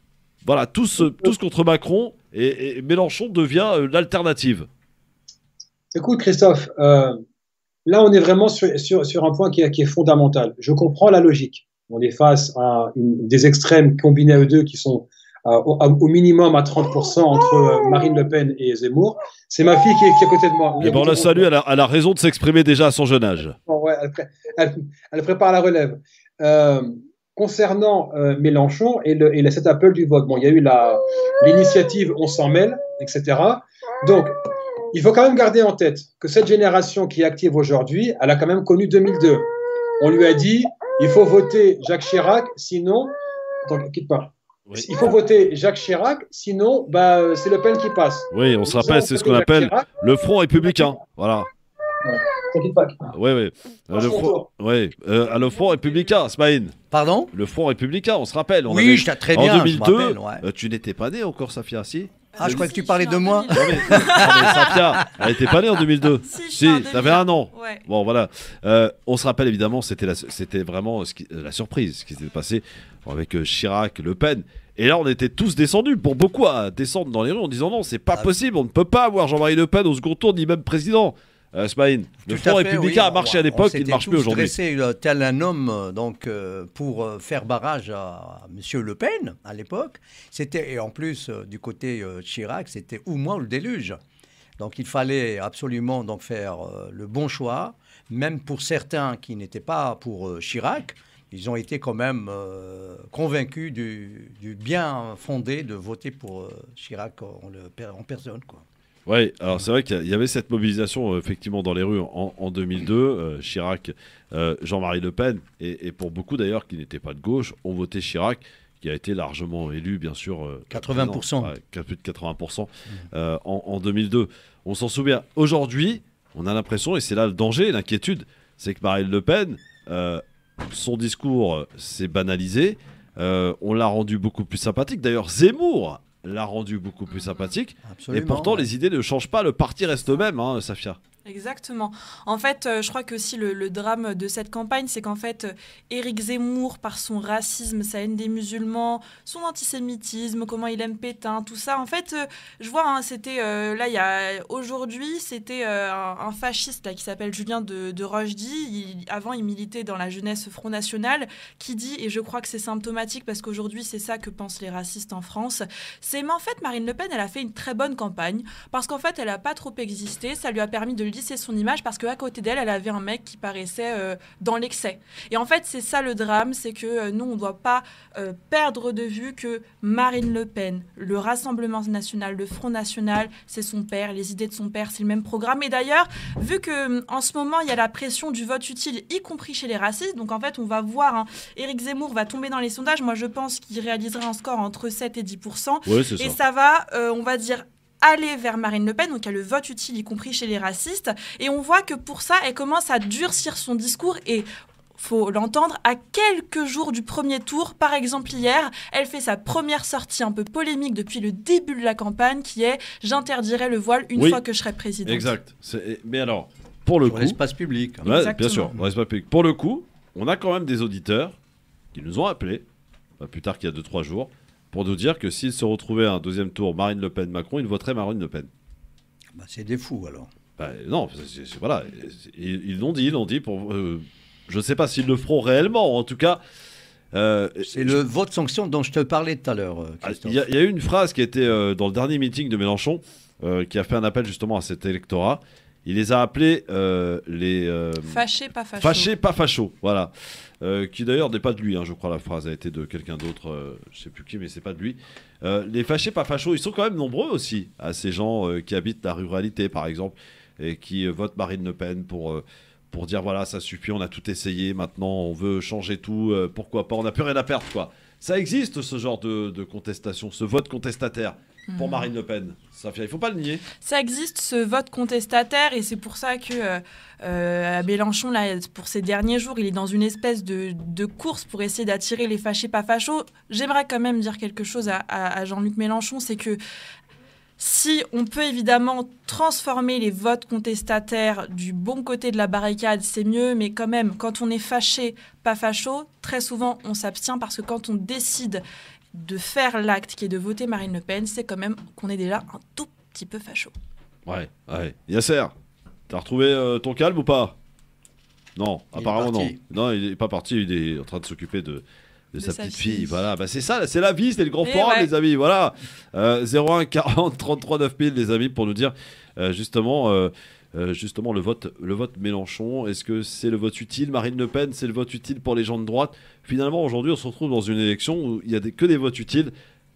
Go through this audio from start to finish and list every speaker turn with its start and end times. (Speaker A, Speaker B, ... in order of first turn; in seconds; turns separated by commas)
Speaker A: 0.5-4.7, Speaker B: 1.0-1.3, Speaker B: 5.9-7.2, Speaker B: 7.9-21.5, Speaker A: 20.8-23.6, Speaker B: 23.7-34.3, Speaker B: 34.9-39.4, Speaker B: 40.0-43.1, Speaker B: 43.7-49.9, Speaker A: 44.7-45.1, Speaker A: 48.3-51.5, Speaker B: 50.7-50.9, Speaker B: 52.0-53.1, Speaker A: 53.1-56.8, Speaker B: 53.9-54.5, Speaker C: 56.9-57.3, Speaker A: 57.3-62.7, Speaker C: 58.7-60.4, Speaker D: 62.3-64.7, Speaker C: 62.4-65.0, Speaker A: 63.5-84.5, Speaker D: 66.3-67.8, Speaker C: 82.3-94.0, Speaker C: 94.6-108.7, Speaker A: 109.1-141.0, Speaker C: 120.7-121.5, Speaker D: 137.1-137.5, Speaker C: 137.8-138.7, Speaker D: 141.2-215.3, Speaker A: 195.9-196.4, Speaker A: 214.2-214.4, Speaker A: 215.1-217.4, Speaker C: 217.0-218.8, Speaker D: 218.1-218.7, Speaker A: 218.1-221.3, Speaker A: 221.9-222.6, Speaker A: 223.2-228.5, Speaker C: 229.3-230.3, Speaker A: 230.6-236.4, Speaker A: 237.1-238.0, Speaker C: 237.7-240.4, Speaker A: 240.0-248.2, Speaker D: 248.1-249.1, Speaker A: 248.8-273.6, Speaker D: 271.7-272.1, Speaker D: 273.8-286.6, Speaker D: 287.6-298.6, Speaker D: 299.1-303.7, Speaker A: 304.3-305.5, Speaker A: 306.1-307.6, Speaker A: 308.6-329.5, Speaker C: 309.0-309.6, Speaker D: 312.4-313.2, Speaker D: 314.6-315.1